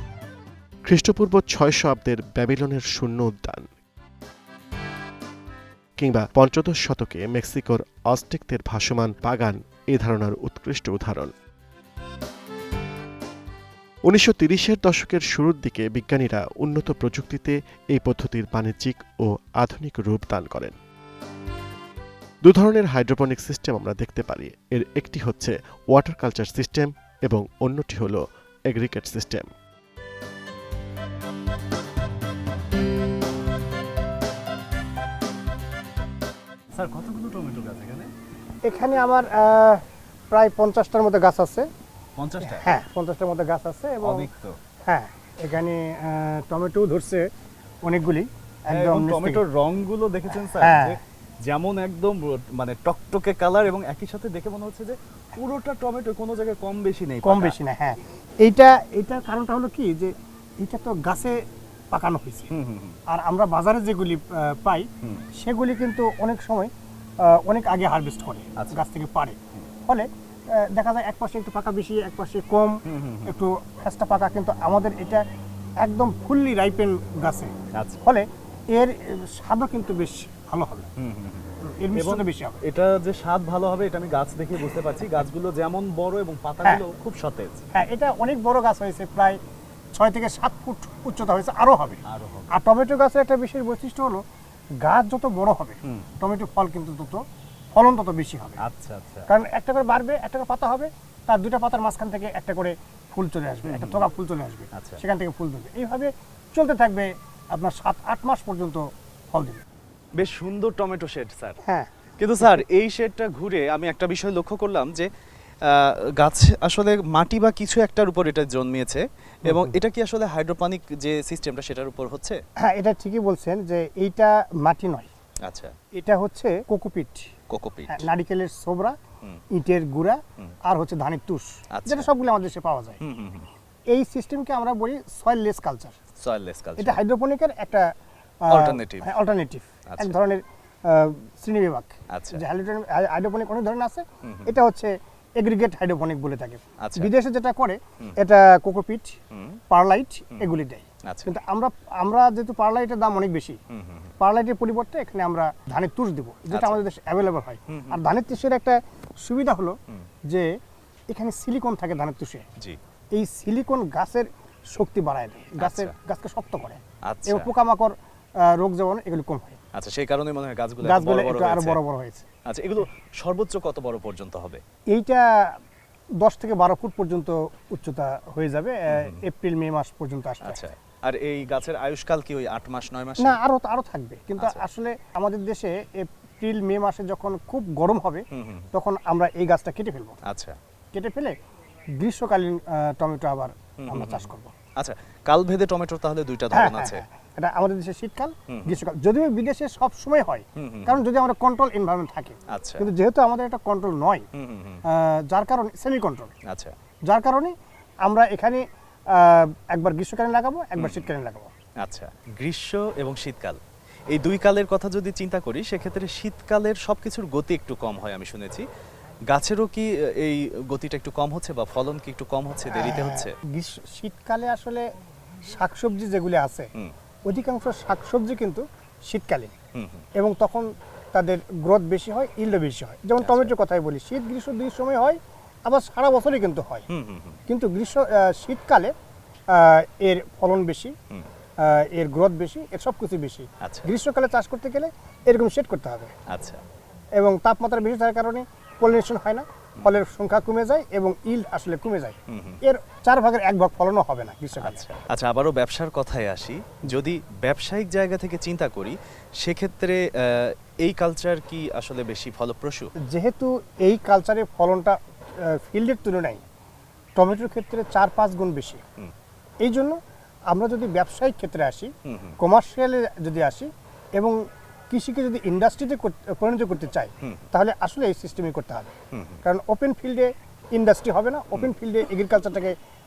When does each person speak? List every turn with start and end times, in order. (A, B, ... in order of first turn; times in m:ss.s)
0:00.9-0:03.7 A
0:06.0-0:11.3 A
0:14.1-0:20.8 A
0:22.4-0:29.5 A
0:36.7-0:38.1 B
0:38.6-0:39.8 C
0:40.3-0:41.7 C
0:42.2-0:42.7 B
0:42.4-0:44.3 C
0:44.0-0:44.6 B
0:44.9-0:47.3 C
0:47.8-0:49.4 C
0:48.7-0:57.6 B
0:50.3-0:51.0 C
0:57.2-1:01.4 C
1:01.9-1:02.5 C
1:02.5-1:03.0 B
1:03.1-1:06.7 C
1:07.2-1:15.2 C
1:12.9-1:13.3 B
1:15.8-1:20.9 C
1:21.0-1:27.6 B
1:21.6-1:22.6 C
1:27.7-1:29.4 C
1:30.0-1:34.2 C
1:32.1-1:32.5 B
1:34.8-1:37.2 C
1:37.7-1:38.6 C
1:38.6-1:39.3 B
1:39.3-1:49.6 C
1:43.6-1:44.1 B
1:44.8-1:45.0 B
1:50.2-1:51.6 B
1:51.6-1:51.9 C
1:52.2-1:55.1 B
1:55.6-2:02.4 B
1:59.5-1:59.7 C
2:02.6-2:05.1 C
2:05.4-2:05.7 B
2:06.0-2:07.3 C
2:07.5-2:08.1 B
2:07.9-2:09.0 C
2:09.5-2:13.0 C
2:11.8-2:12.1 B
2:13.0-2:13.5 B
2:13.9-2:16.0 C
2:16.2-2:17.0 B
2:16.8-2:17.9 C
2:18.4-2:29.2 C
2:18.5-2:19.1 B
2:19.9-2:20.2 B
2:22.1-2:22.4 B
2:24.2-2:24.5 B
2:26.8-2:27.1 B
2:29.3-2:29.6 B
2:29.7-2:33.6 C
2:33.7-2:34.1 B
2:34.2-2:39.8 C
2:36.5-2:36.8 B
2:37.7-2:38.0 B
2:41.1-2:42.4 C
2:43.2-2:47.9 C
2:45.6-2:45.9 B
2:47.1-2:47.5 B
2:48.4-2:49.6 C
2:49.8-2:51.8 B
2:50.8-2:52.3 C
2:52.5-2:54.6 B
2:54.9-2:55.4 C
2:56.2-3:00.6 C
2:58.9-2:59.2 B
3:00.4-3:03.4 B
3:03.2-3:10.2 C
3:08.3-3:08.7 B
3:10.3-3:10.6 B
3:10.9-3:11.3 C
3:12.0-3:14.5 C
3:13.8-3:17.0 B
3:16.5-3:24.2 C
3:18.5-3:18.8 B
3:20.6-3:21.0 B
3:22.5-3:22.9 B
3:24.4-3:24.8 B
3:24.9-3:26.3 C
3:27.1-3:27.5 C
3:28.1-3:28.6 C
3:29.1-3:31.5 C
3:30.8-3:31.1 B
3:31.8-3:33.6 B
3:34.1-3:38.6 B
3:39.3-3:43.3 B
3:42.7-3:44.8 C
3:45.5-3:46.7 C
3:47.3-3:49.5 C
3:49.8-3:50.0 B
3:50.2-3:56.9 C
3:53.2-3:53.5 B
3:56.9-3:57.4 B
3:57.5-3:58.9 C
3:59.5-4:00.9 C
4:01.6-4:06.1 C
4:03.6-4:03.9 B
4:06.3-4:06.6 B
4:07.2-4:14.8 C
4:12.3-4:12.6 B
4:14.6-4:22.9 B
4:23.1-4:26.4 C
4:27.2-4:28.8 C
4:29.6-4:30.0 C
4:30.5-4:34.4 C
4:32.1-4:32.4 B
4:34.9-4:38.9 C
4:39.1-4:39.4 B
4:39.4-4:42.7 C